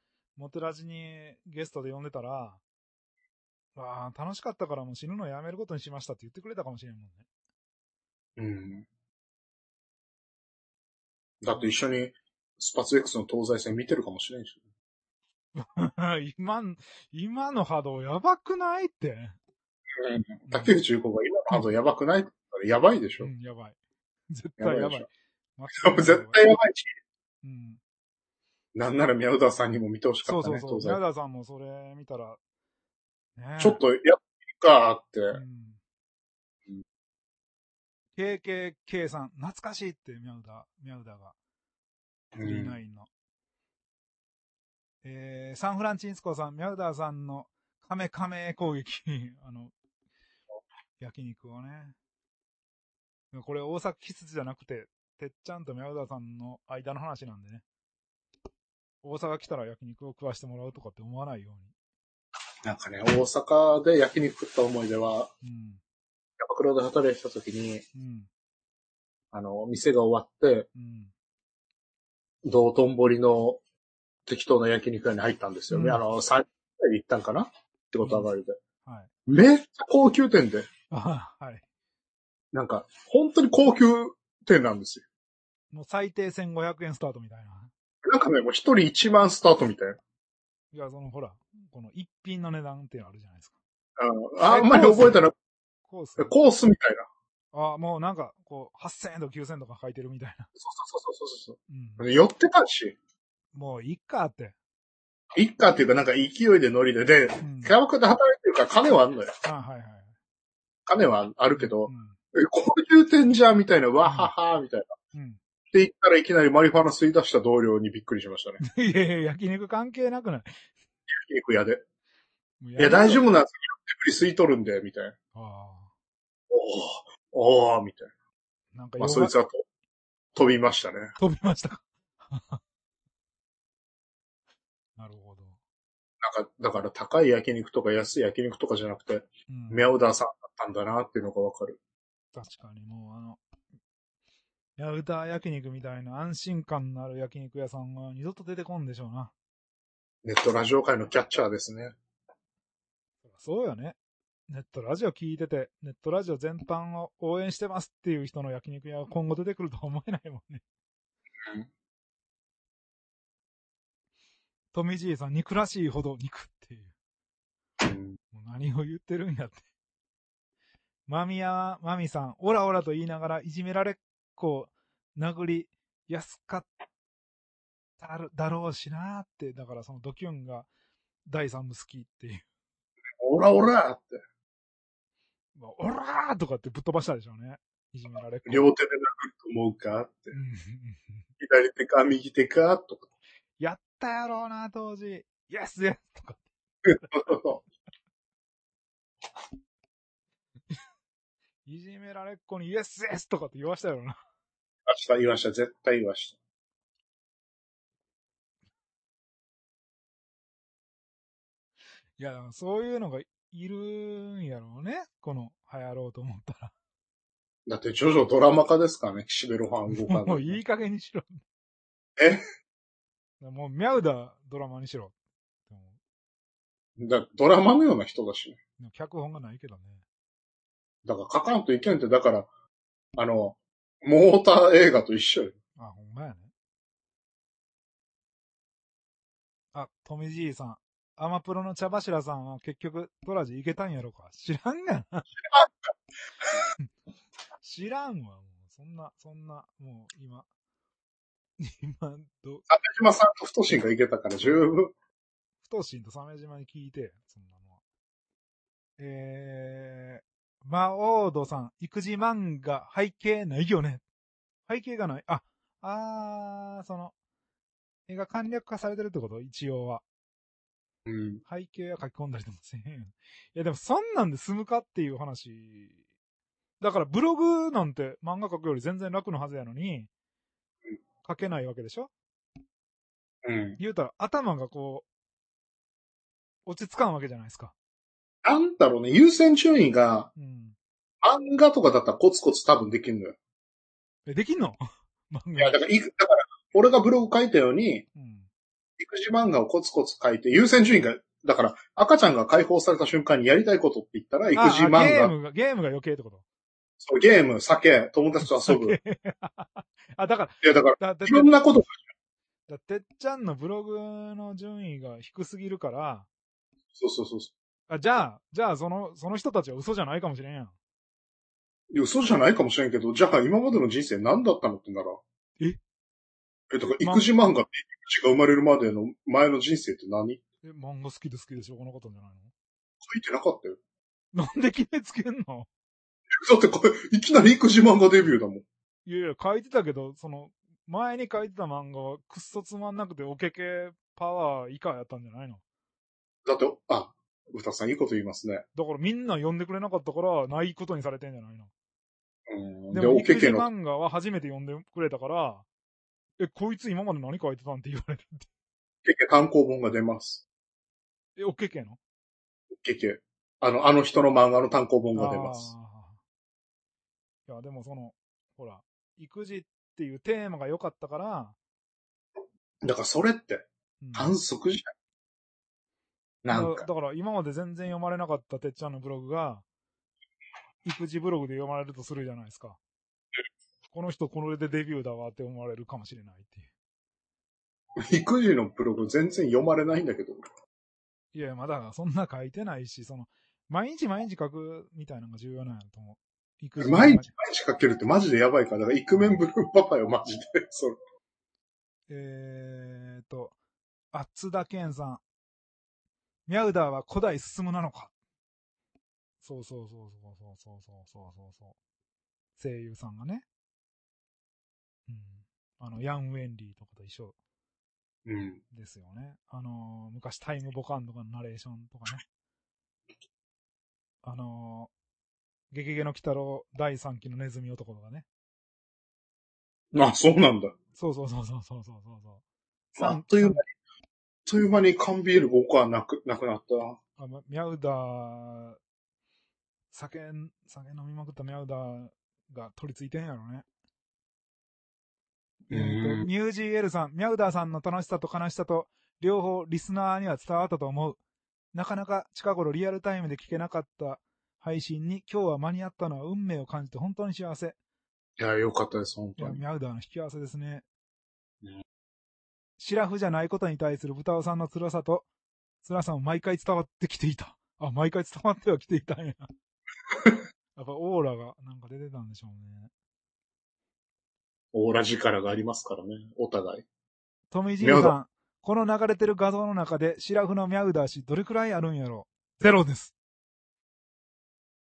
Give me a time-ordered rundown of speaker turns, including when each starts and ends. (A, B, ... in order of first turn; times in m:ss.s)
0:00.4-0:02.6 A
0:03.8-0:07.2 A
0:08.4-0:08.8 B
0:11.4-0:14.6 B
0:15.5-0:19.4 A
0:20.0-0:23.3 B
0:20.5-0:20.8 A
0:23.2-0:23.8 A
0:24.3-0:26.4 A
0:24.6-0:25.1 B
0:25.8-0:26.9 B
0:27.4-0:27.8 A
0:28.7-0:31.0 B
0:30.2-0:32.4 A
0:33.4-0:33.8 A
0:33.6-0:35.4 B
0:35.3-0:35.8 A
0:38.2-0:41.3 A
0:42.3-0:42.8 B
0:42.4-0:43.1 A
0:45.0-0:49.7 A
0:51.0-0:52.0 A
0:53.3-0:57.6 A
0:59.0-1:01.7 A
1:02.6-1:05.3 B
1:05.4-1:05.8 A
1:06.4-1:07.8 B
1:07.9-1:08.3 A
1:09.3-1:10.7 B
1:10.7-1:11.1 A
1:12.4-1:13.6 B
1:14.2-1:18.6 B
1:15.7-1:16.0 A
1:18.0-1:18.3 A
1:19.3-1:20.7 B
1:20.9-1:21.6 A
1:22.5-1:25.0 B
1:25.7-1:27.7 A
1:28.0-1:30.0 B
1:30.7-1:33.5 A
1:34.0-1:35.3 B
1:34.4-1:35.3 A
1:35.9-1:36.3 A
1:36.2-1:37.0 B
1:37.5-1:40.5 A
1:40.6-1:43.0 B
1:41.7-1:42.1 A
1:43.5-1:44.5 A
1:45.3-1:49.3 B
1:47.4-1:47.7 A
1:49.4-1:50.1 A
1:50.8-1:54.9 B
1:51.6-1:52.2 A
1:54.0-1:54.3 A
1:55.1-1:55.4 A
1:55.7-1:58.6 B
1:58.6-2:00.5 A
2:01.1-2:01.8 B
2:02.6-2:03.2 A
2:02.8-2:05.2 B
2:05.3-2:05.9 A
2:06.5-2:08.1 B
2:08.7-2:09.3 A
2:09.0-2:09.6 B
2:10.3-2:11.1 B
2:11.2-2:12.6 A
2:15.0-2:15.6 A
2:16.2-2:21.8 B
2:19.5-2:19.9 A
2:22.3-2:23.4 A
2:24.8-2:29.3 A
2:30.2-2:31.9 B
2:33.2-2:34.0 A
2:34.5-2:40.6 A
2:44.7-2:46.9 A
2:47.8-2:48.2 B
2:48.3-2:49.6 A
2:51.1-2:56.7 A
2:58.0-3:00.7 A
3:01.2-3:02.4 A
3:03.2-3:04.2 B
3:05.5-3:08.7 A
3:08.4-3:10.3 B
3:10.3-3:11.2 A
3:11.4-3:13.1 B
3:13.6-3:16.4 A
3:16.8-3:17.6 B
3:17.0-3:17.3 A
3:21.6-3:24.2 A
3:24.9-3:26.4 B
3:32.2-3:36.7 A
3:37.7-3:40.6 B
3:39.9-3:41.4 A
3:42.2-3:42.4 B
3:43.4-3:45.1 A
3:45.7-3:46.0 A
3:47.0-3:48.6 B
3:48.8-3:50.0 A
3:51.0-3:52.5 B
3:53.2-3:55.5 B
3:55.8-3:56.5 A
3:59.7-4:05.3 A
4:07.6-4:10.4 A
4:11.6-4:12.6 A
4:12.7-4:14.9 B
4:15.6-4:17.8 A
4:19.0-4:24.0 A
4:24.7-4:27.1 A
4:28.1-4:30.0 A
4:31.0-4:31.4 B
4:31.4-4:35.9 A
4:36.8-4:40.1 A
4:41.2-4:42.1 A
4:43.4-4:43.8 B
4:43.8-4:45.0 A
4:46.6-4:47.7 A
4:48.4-4:50.3 B
4:50.4-4:50.7 A
4:51.2-4:53.3 B
4:54.3-4:54.8 A
4:55.3-4:55.8 A
4:55.6-4:58.0 B
4:58.1-4:58.5 A
4:59.0-5:05.3 B
5:04.5-5:06.4 A
5:07.0-5:09.0 B
5:08.4-5:11.7 A
5:10.6-5:12.0 B
5:12.7-5:16.3 A
5:17.0-5:17.5 B
5:17.9-5:20.7 A
5:21.9-5:25.2 B
5:26.7-5:30.4 B
5:27.0-5:27.3 A
5:30.6-5:32.5 A
5:33.0-5:33.8 B
5:34.3-5:35.7 A
5:36.3-5:38.6 B
5:39.0-5:45.6 A
5:46.4-5:48.6 B
5:48.7-5:51.7 A
5:52.5-5:53.7 B
5:52.9-5:55.6 A
5:56.4-5:58.5 A
5:59.0-6:00.4 B
6:01.4-6:02.0 A
6:02.7-6:05.7 B
6:05.1-6:06.2 A
6:07.5-6:11.6 A
6:12.8-6:14.9 B
6:14.0-6:14.3 A
6:16.4-6:16.9 B
6:16.5-6:19.6 A
6:20.8-6:22.8 A
6:23.9-6:26.7 A
6:28.0-6:30.4 B
6:31.3-6:37.3 A
6:36.8-6:41.0 B
6:42.1-6:43.5 A
6:44.1-6:45.2 A
6:46.5-6:48.1 A
6:49.4-6:51.7 A
6:52.6-6:53.4 A
6:55.1-6:57.3 A
6:58.2-6:58.6 B
6:58.7-7:02.2 A
7:04.2-7:04.9 A
7:05.7-7:08.2 A
7:09.9-7:10.7 B
7:11.0-7:12.4 A
7:12.9-7:13.6 A
7:13.0-7:13.6 B
7:14.4-7:17.0 B
7:17.2-7:18.8 A
7:19.9-7:23.6 A
7:25.7-7:26.3 B
7:25.7-7:31.2 A
7:31.7-7:37.8 A
7:38.4-7:39.6 B
7:39.4-7:40.8 A
7:42.8-7:45.2 A
7:45.8-7:49.5 A
7:50.8-7:52.9 A
7:54.7-7:56.8 B
7:57.5-8:03.1 A
7:57.8-7:58.1 B